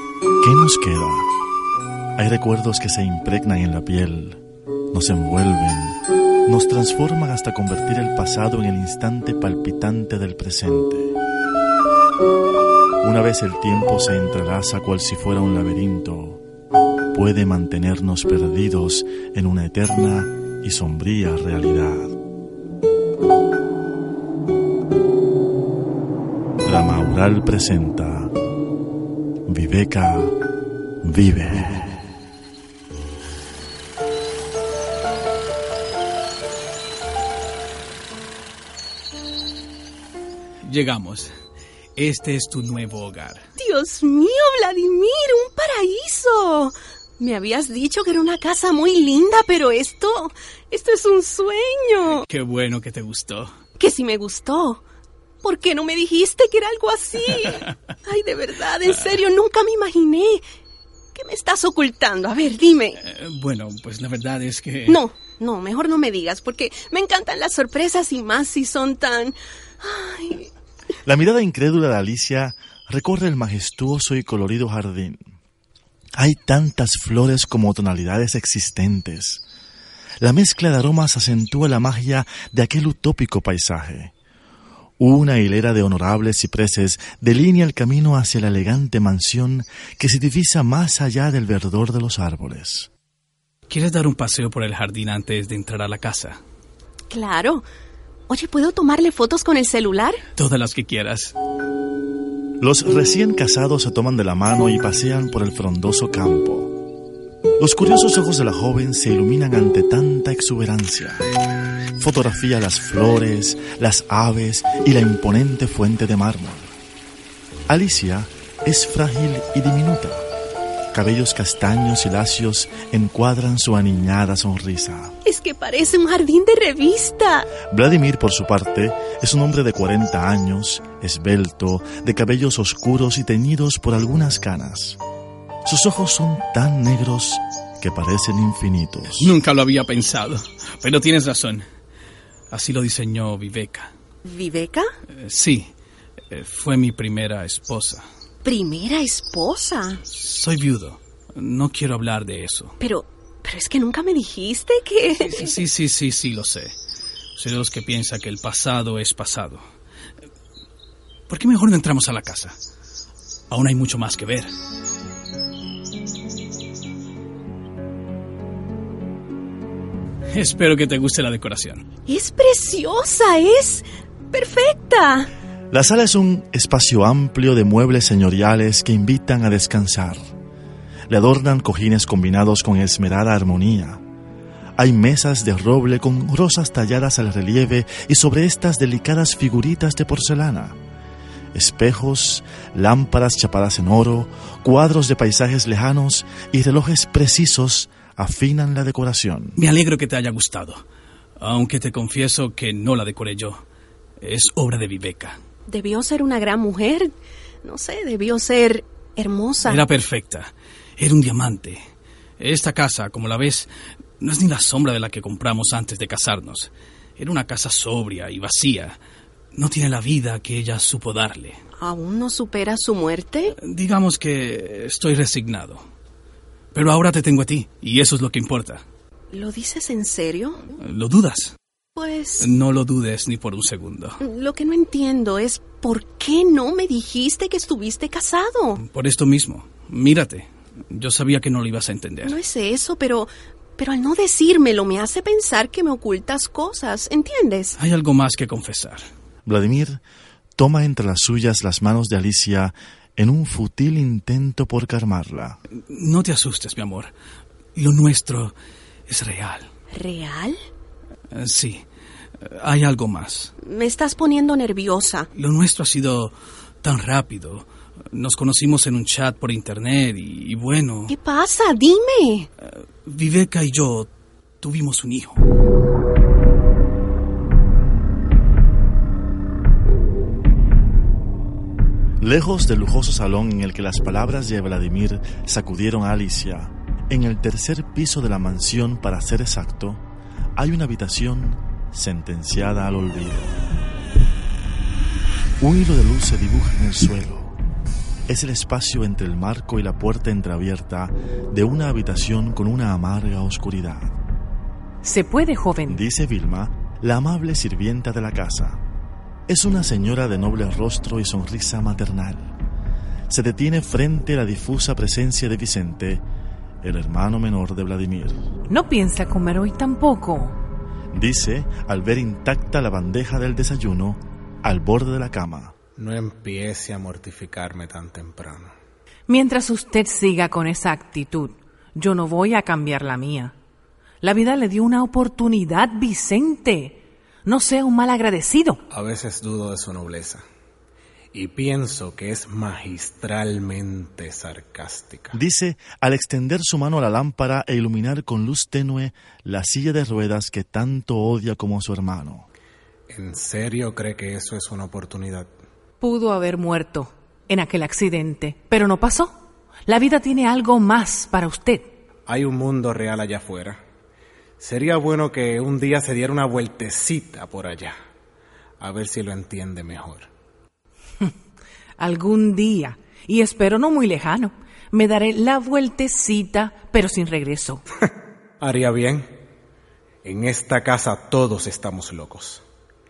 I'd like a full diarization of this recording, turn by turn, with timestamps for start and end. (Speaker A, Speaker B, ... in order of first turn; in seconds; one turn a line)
Speaker A: 0.4-1.3
Speaker A: 2.2-4.4
Speaker A: 4.9-11.2
Speaker A: 13.0-16.4
Speaker A: 17.1-22.1
Speaker A: 26.6-28.3
Speaker A: 29.5-30.3
Speaker A: 31.0-32.0
Speaker B: 40.6-41.3
Speaker B: 42.0-43.4
Speaker C: 43.6-52.2
Speaker B: 52.1-53.5
Speaker C: 53.8-54.8
Speaker C: 55.4-60.4
Speaker C: 61.1-63.0
Speaker B: 63.0-65.0
Speaker C: 64.9-70.5
Speaker A: 71.0-75.2
Speaker A: 76.2-79.4
Speaker A: 80.2-84.1
Speaker A: 85.0-92.9
Speaker B: 93.7-96.4
Speaker C: 97.1-97.7
Speaker C: 98.3-100.2
Speaker B: 100.4-101.3
Speaker A: 102.6-106.7
Speaker A: 107.6-111.2
Speaker A: 112.0-116.7
Speaker A: 117.7-120.3
Speaker A: 120.9-125.2
Speaker C: 125.2-127.5
Speaker A: 127.6-135.0
Speaker A: 135.7-139.3
Speaker B: 139.2-141.7
Speaker B: 142.5-143.9
Speaker C: 144.2-144.9
Speaker B: 145.2-145.7
Speaker B: 146.3-148.0
Speaker C: 148.4-150.0
Speaker B: 150.1-152.8
Speaker C: 152.8-155.5
Speaker B: 155.2-156.8
Speaker B: 157.4-159.6
Speaker B: 161.3-162.6
Speaker B: 163.5-164.5
Speaker B: 170.3-171.8
Speaker C: 172.1-175.3
Speaker A: 175.7-180.2
Speaker A: 181.1-184.0
Speaker A: 184.8-190.8
Speaker A: 191.5-199.6
Speaker B: 199.6-200.8
Speaker B: 201.4-203.6
Speaker B: 204.2-205.4
Speaker C: 205.7-207.1
Speaker C: 207.6-209.8
Speaker B: 209.7-211.8
Speaker B: 212.4-213.7
Speaker B: 214.2-219.0
Speaker B: 219.5-221.6
Speaker C: 221.8-223.6
Speaker B: 223.6-225.8
Speaker B: 226.7-228.8
Speaker C: 229.3-230.7
Speaker B: 230.8-231.6
Speaker C: 232.0-232.5
Speaker B: 232.4-234.2
Speaker C: 234.2-238.8
Speaker B: 238.8-242.4
Speaker C: 242.2-247.8
Speaker B: 247.8-249.1
Speaker A: 249.5-250.0
Speaker A: 250.6-255.6
Speaker B: 255.9-257.1
Speaker B: 257.8-258.5
Speaker B: 259.1-259.7
Speaker C: 259.9-260.6
Speaker B: 261.3-261.8
Speaker B: 262.4-263.5
Speaker C: 263.6-265.3
Speaker B: 265.4-271.1
Speaker C: 271.1-272.5
Speaker B: 272.6-274.1
Speaker B: 274.6-275.4
Speaker A: 282.2-290.0
Speaker A: 290.6-293.6
Speaker A: 295.6-297.5
Speaker A: 298.3-304.1
Speaker D: 305.0-306.0
Speaker A: 305.9-308.8
Speaker A: 309.5-312.5
Speaker A: 313.3-316.2
Speaker A: 316.8-318.4
Speaker D: 318.7-320.6
Speaker A: 321.1-325.8
Speaker E: 326.0-328.7
Speaker D: 329.3-333.6
Speaker D: 334.2-338.8
Speaker E: 338.9-340.4
Speaker E: 341.3-345.4
Speaker A: 345.3-352.5
Speaker E: 353.1-355.5
Speaker D: 356.0-359.3
Speaker D: 359.9-361.9
Speaker E: 362.3-363.8
Speaker E: 364.6-367.9
Speaker E: 368.8-370.3
Speaker D: 372.0-377.8
Speaker E: 378.6-379.3
Speaker E: 380.2-382.6